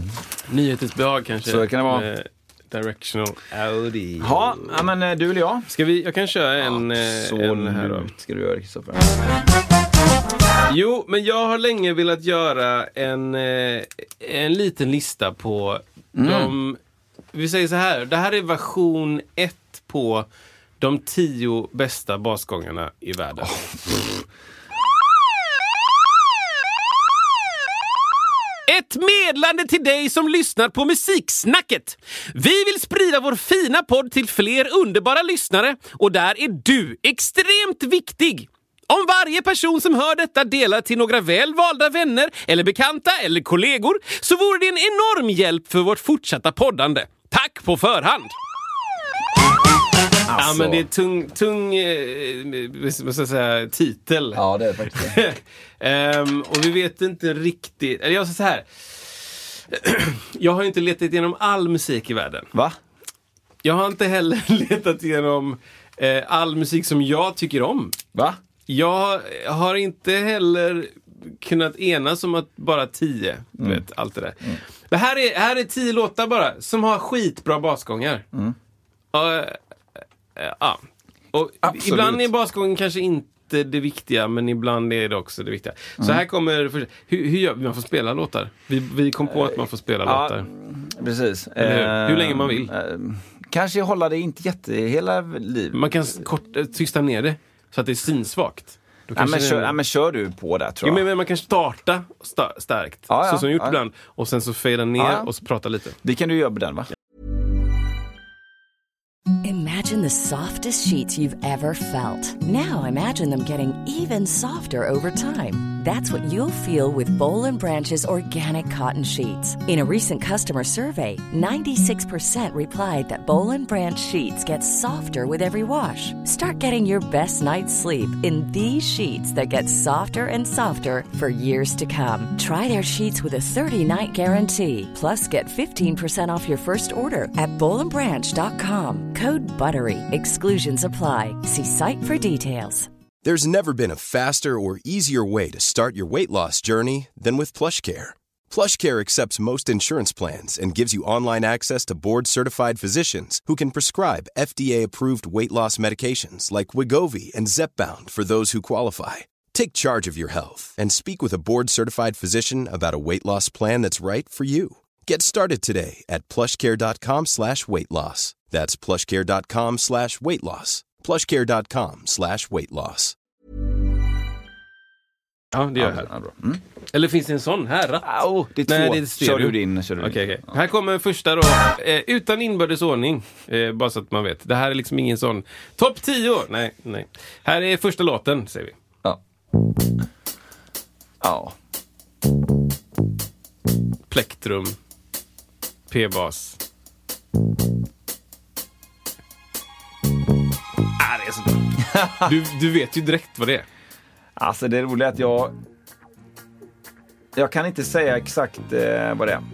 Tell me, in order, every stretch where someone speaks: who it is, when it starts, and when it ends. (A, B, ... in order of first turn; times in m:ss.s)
0:00.4-0:04.8 A
0:01.4-0:02.1 B
0:04.2-0:05.7 B
0:05.7-0:08.1 A
0:06.6-0:09.2 B
0:10.7-0:16.8 A
0:16.2-0:16.6 B
0:17.3-0:20.3 A
0:20.8-0:23.6 A
0:23.4-0:24.2 B
0:28.7-0:48.3 A
0:50.3-0:50.8 B
0:50.3-1:02.5 A
0:54.3-0:55.2 B
1:03.6-1:08.0 A
1:08.1-1:08.4 B
1:08.7-1:18.2 A
1:19.1-1:19.6 A
1:20.4-1:30.5 A
1:21.6-1:22.3 B
1:29.3-1:35.9 B
1:31.6-1:32.7 A
1:35.7-1:39.8 A
1:39.2-1:41.0 B
1:40.8-1:46.0 A
1:43.1-1:43.8 B
1:45.0-1:45.3 B
1:46.0-1:46.9 B
1:49.4-2:22.9 C
2:23.2-2:53.2 D
2:55.5-2:56.1 A
2:55.8-2:56.6 B
2:56.9-3:08.8 A
2:58.0-3:00.5 B
3:11.2-3:11.6 B
3:14.1-3:14.8 A
3:15.9-3:16.6 A
3:21.0-3:23.7 A
3:21.8-3:22.3 B
3:24.4-3:25.6 B
3:27.4-3:29.4 B